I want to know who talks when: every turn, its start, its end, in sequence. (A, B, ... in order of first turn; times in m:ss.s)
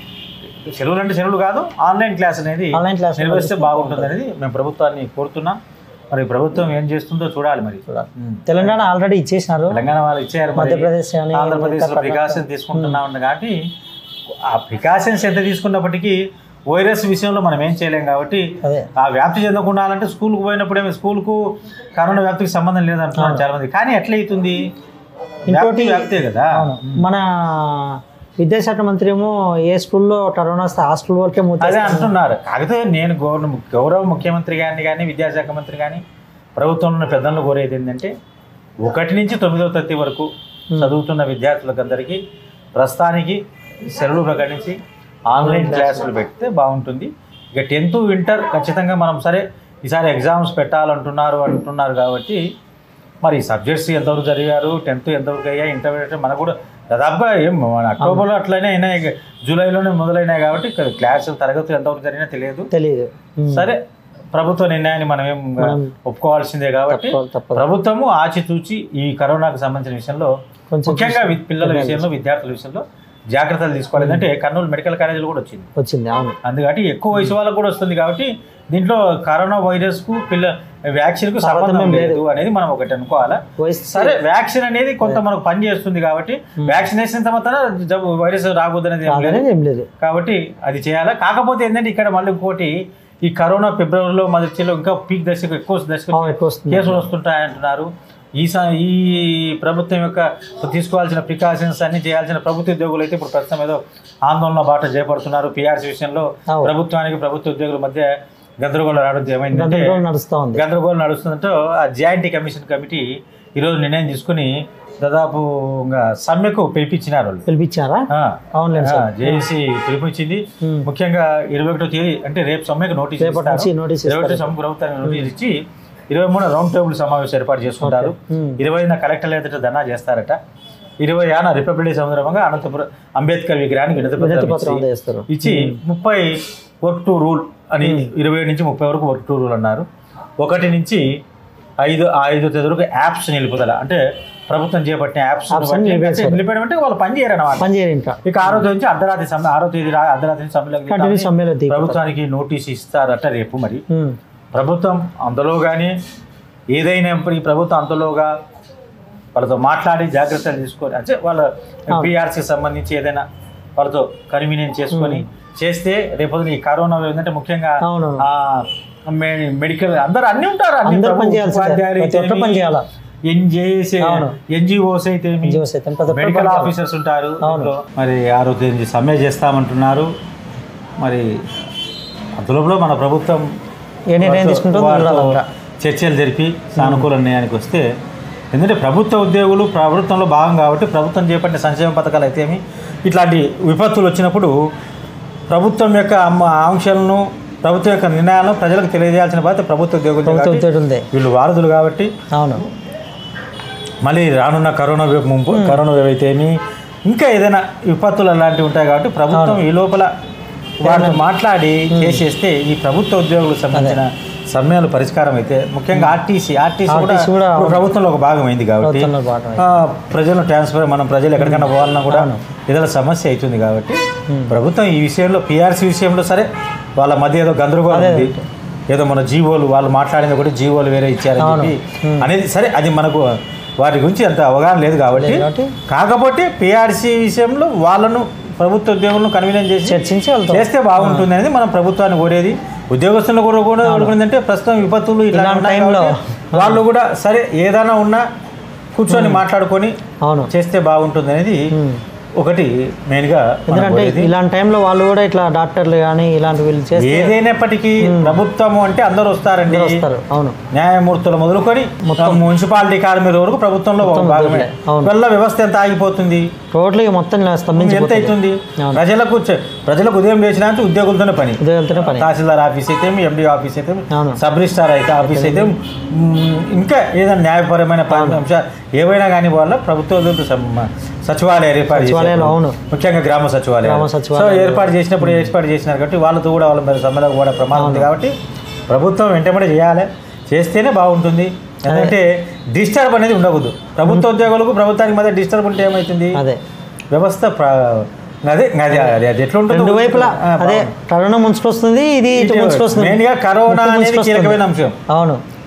0:00.6-0:05.6 A
0:02.7-0:04.1 B
0:06.1-0:08.7 A
0:07.9-0:09.8 B
0:09.7-0:13.6 A
0:10.6-0:13.0 B
0:14.4-0:24.6 A
0:18.6-0:18.9 B
0:23.1-0:23.4 B
0:25.5-0:32.1 B
0:25.5-0:27.0 A
0:31.6-0:36.0 A
0:36.6-0:38.1 A
0:38.8-0:42.2 A
0:42.8-0:44.8 A
0:45.3-0:52.4 A
0:45.4-0:46.0 B
0:53.2-1:02.7 A
1:02.7-1:03.7 B
1:03.5-1:03.8 A
1:04.3-1:10.3 A
1:05.6-1:05.9 B
1:06.9-1:07.7 B
1:10.7-1:12.1 B
1:10.8-1:15.7 A
1:14.0-1:14.2 B
1:15.8-1:16.4 B
1:16.4-1:29.4 A
1:21.4-1:22.2 B
1:23.6-1:24.2 B
1:29.1-1:29.9 B
1:30.0-1:48.1 A
1:36.1-1:37.0 B
1:48.6-1:49.9 A
1:49.5-1:50.6 B
1:50.5-1:57.4 A
1:57.4-1:59.4 B
1:58.1-2:10.4 A
2:00.6-2:00.9 B
2:03.2-2:05.3 B
2:07.8-2:08.6 B
2:11.0-2:19.8 A
2:14.2-2:15.8 B
2:17.8-2:18.1 B
2:20.4-2:21.0 A
2:21.8-2:27.7 A
2:25.5-2:26.4 B
2:27.6-2:28.6 B
2:28.2-2:33.8 A
2:30.9-2:32.1 B
2:33.9-2:34.2 B
2:34.5-2:36.0 A
2:36.7-2:38.3 A
2:39.3-2:43.2 A
2:43.8-2:52.7 A
2:44.9-2:45.2 B
2:47.8-2:48.2 B
2:50.8-2:52.8 B
2:53.3-3:00.1 A
2:54.0-2:54.4 B
2:55.4-2:56.7 B
2:57.4-2:57.7 B
3:01.0-3:01.4 A
3:02.4-3:03.4 A
3:04.1-3:05.4 B
3:04.2-3:07.8 A
3:06.8-3:07.1 B
3:08.5-3:14.5 A
3:15.5-3:22.1 A
3:20.2-3:21.0 B
3:22.3-3:22.6 B
3:24.0-3:30.1 A
3:25.5-3:25.8 B
3:29.3-3:29.6 B
3:30.8-3:48.3 A
3:30.8-3:31.2 B
3:31.9-3:32.2 B
3:33.7-3:34.0 B
3:36.9-3:37.8 B
3:38.8-3:39.8 B
3:41.4-3:42.4 B
3:44.3-3:44.6 B
3:47.9-3:48.4 B
3:48.9-4:00.0 A
3:51.4-3:52.3 B
3:55.1-3:55.7 B
3:59.8-4:01.3 B
4:00.5-4:08.2 A
4:03.8-4:04.1 B
4:05.3-4:06.8 B
4:08.9-4:10.0 A
4:09.1-4:09.4 B
4:10.2-4:10.5 B
4:10.5-4:11.7 A
4:11.7-4:12.0 B
4:12.4-4:14.3 A
4:13.7-4:17.3 B
4:17.0-4:20.0 A
4:18.0-4:18.4 B
4:19.7-4:20.6 B
4:20.7-4:26.5 A
4:22.0-4:22.4 B
4:24.0-4:25.1 B
4:26.7-4:29.0 B
4:27.7-4:48.3 A
4:31.6-4:32.3 B
4:34.1-4:34.4 B
4:35.2-4:35.7 B
4:38.1-4:38.4 B
4:41.9-4:42.8 B
4:43.8-4:45.5 B
4:47.7-4:48.1 B
4:48.9-4:56.4 A
4:51.9-4:52.2 B
4:56.3-4:56.6 B
4:57.1-5:00.9 A
4:59.7-5:05.4 B
5:02.3-5:04.9 A